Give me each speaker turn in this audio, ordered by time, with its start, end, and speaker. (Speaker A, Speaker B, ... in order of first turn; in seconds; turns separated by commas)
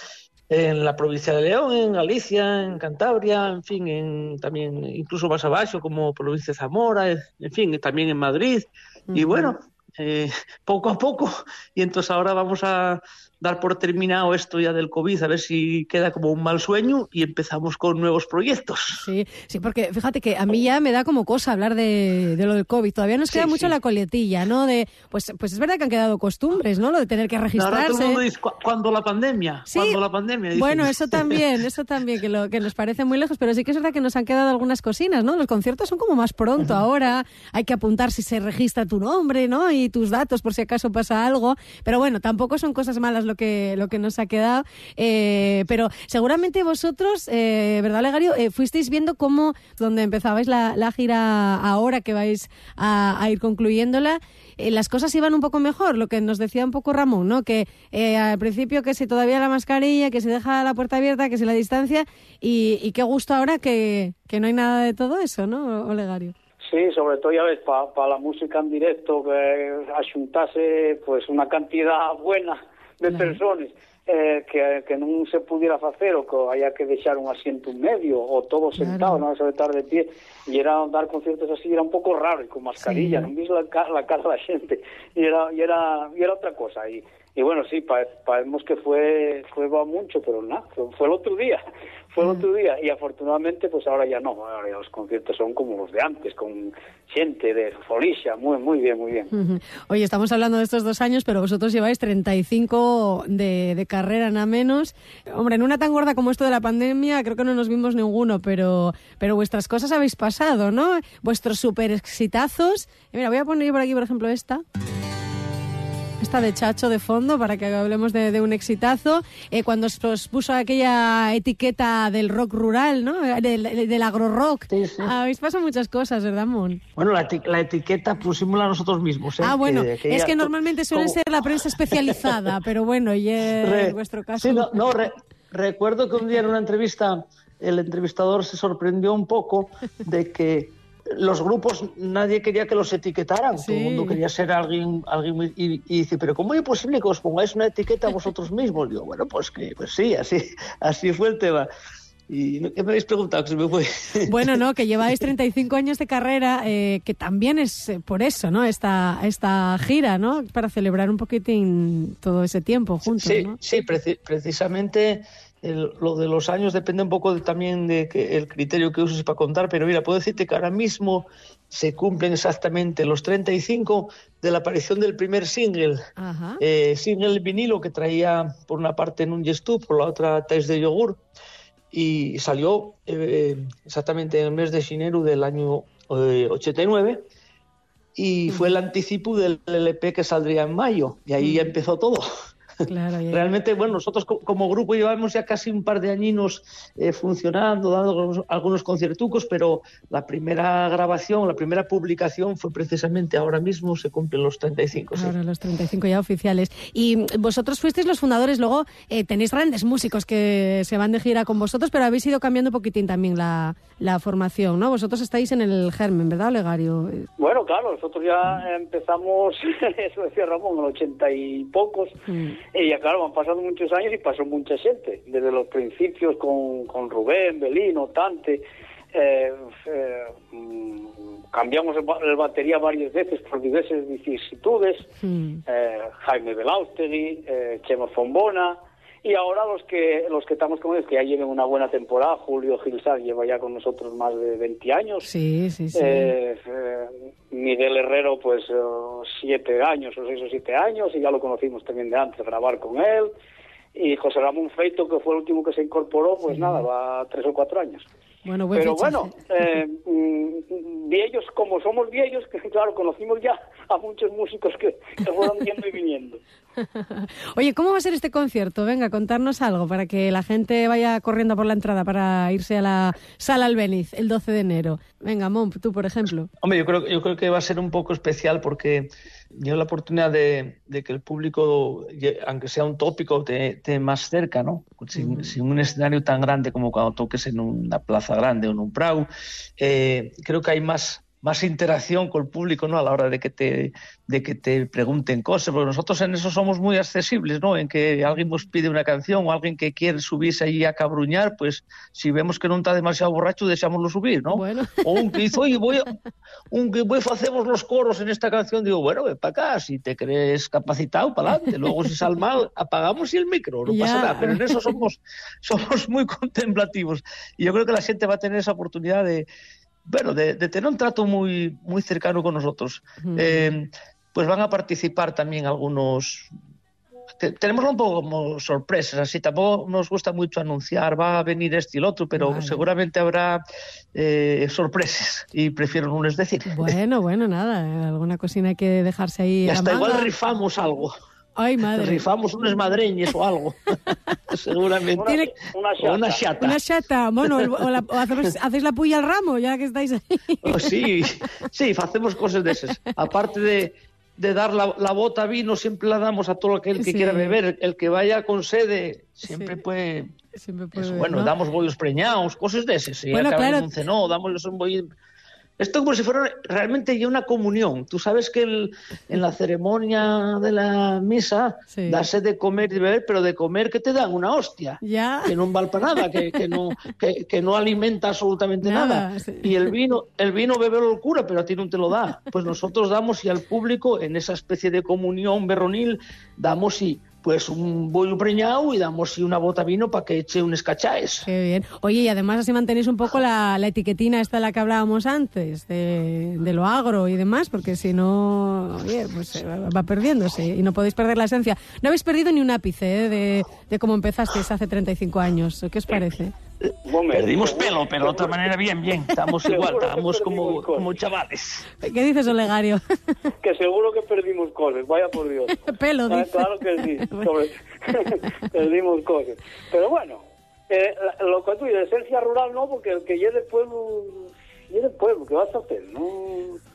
Speaker A: 0.5-19.0, Speaker B: 9.1-9.5, Speaker B: 19.0-28.2, Speaker A: 23.3-23.7, Speaker A: 27.6-31.5, Speaker B: 29.7-30.0, Speaker B: 30.6-66.3, Speaker C: 66.7-91.6, Speaker B: 73.1-73.4, Speaker B: 78.8-79.2, Speaker B: 82.8-83.3, Speaker C: 92.1-99.3, Speaker B: 99.3-114.6, Speaker B: 116.2-126.8, Speaker A: 124.7-125.1, Speaker A: 127.0-132.5, Speaker B: 129.4-134.8, Speaker A: 133.6-151.7, Speaker B: 143.6-144.2, Speaker A: 152.3-154.5, Speaker B: 154.3-163.6, Speaker A: 163.1-176.0, Speaker B: 176.2-176.6, Speaker A: 176.6-181.2, Speaker A: 181.9-187.2, Speaker A: 188.2-192.2, Speaker B: 191.4-191.7, Speaker B: 192.9-193.5, Speaker A: 193.3-205.3, Speaker B: 205.1-217.3, Speaker C: 217.4-222.2, Speaker B: 222.3-222.6, Speaker C: 222.7-228.6, Speaker C: 229.1-235.1, Speaker B: 235.2-235.6, Speaker C: 235.7-245.3, Speaker B: 245.2-246.3, Speaker C: 245.9-253.3, Speaker C: 253.9-258.1, Speaker B: 256.5-256.8, Speaker B: 258.5-259.4, Speaker C: 258.8-266.4, Speaker B: 266.8-276.5, Speaker A: 276.6-289.3, Speaker B: 285.1-285.5, Speaker A: 289.8-306.1, Speaker B: 304.5-305.3, Speaker A: 306.7-319.5, Speaker B: 313.9-314.8, Speaker A: 320.1-326.5, Speaker B: 323.2-323.7, Speaker A: 327.4-333.6, Speaker B: 332.4-332.9, Speaker A: 334.1-337.0, Speaker B: 336.7-340.3, Speaker A: 339.7-341.1, Speaker B: 341.6-342.2, Speaker A: 341.9-343.8, Speaker A: 344.5-345.5, Speaker C: 345.2-346.5, Speaker A: 346.0-346.8, Speaker B: 346.6-350.9, Speaker A: 347.4-348.0, Speaker A: 350.6-360.3, Speaker B: 357.0-357.6, Speaker B: 359.4-359.8, Speaker B: 360.6-361.5, Speaker A: 361.0-365.1, Speaker B: 363.3-363.9, Speaker A: 365.8-391.5, Speaker B: 371.9-372.2, Speaker B: 375.0-375.5, Speaker B: 378.8-379.7, Speaker B: 391.4-406.5, Speaker C: 407.1-408.7, Speaker A: 407.3-411.9, Speaker C: 409.6-411.2, Speaker B: 412.0-413.0, Speaker C: 413.6-426.8, Speaker B: 415.8-416.8